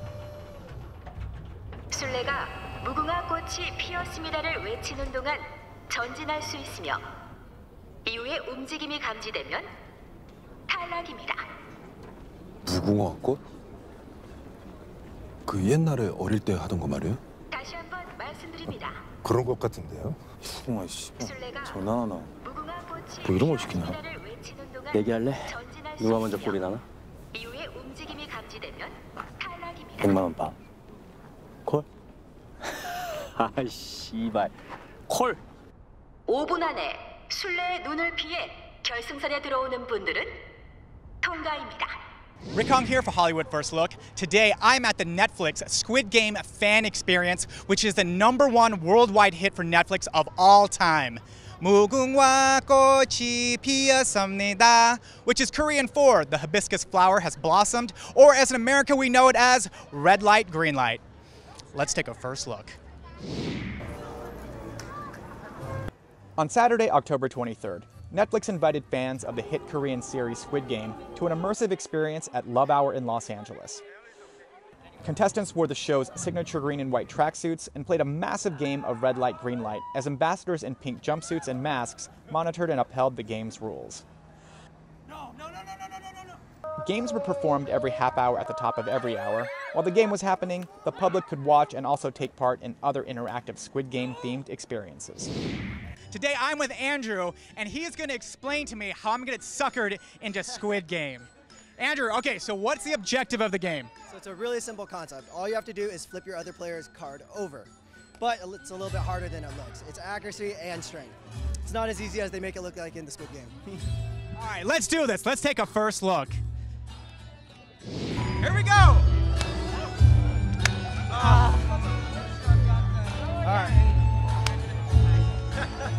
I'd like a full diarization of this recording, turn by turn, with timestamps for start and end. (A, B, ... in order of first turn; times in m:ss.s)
0:01.9-0:07.0 A
0:08.0-0:09.7 A
0:10.7-0:11.4 A
0:12.6-0:13.4 B
0:15.5-0:17.2 B
0:17.5-0:19.0 A
0:19.3-0:22.3 B
0:21.2-0:21.8 A
0:22.4-0:26.6 A
0:23.3-0:23.9 B
0:24.9-0:26.8 C
0:27.3-0:30.2 A
0:30.0-0:30.6 C
0:32.8-0:34.5 C
0:35.1-0:35.4 C
0:36.3-0:40.4 A
0:41.2-0:41.9 A
0:42.5-1:01.0 D
1:01.7-1:02.8 D
1:06.4-1:13.8 D
1:15.0-1:24.0 D
1:26.8-1:35.3 D
1:36.1-1:43.9 D
1:44.1-1:53.8 E
1:54.3-1:56.4 D
1:58.4-1:59.0 D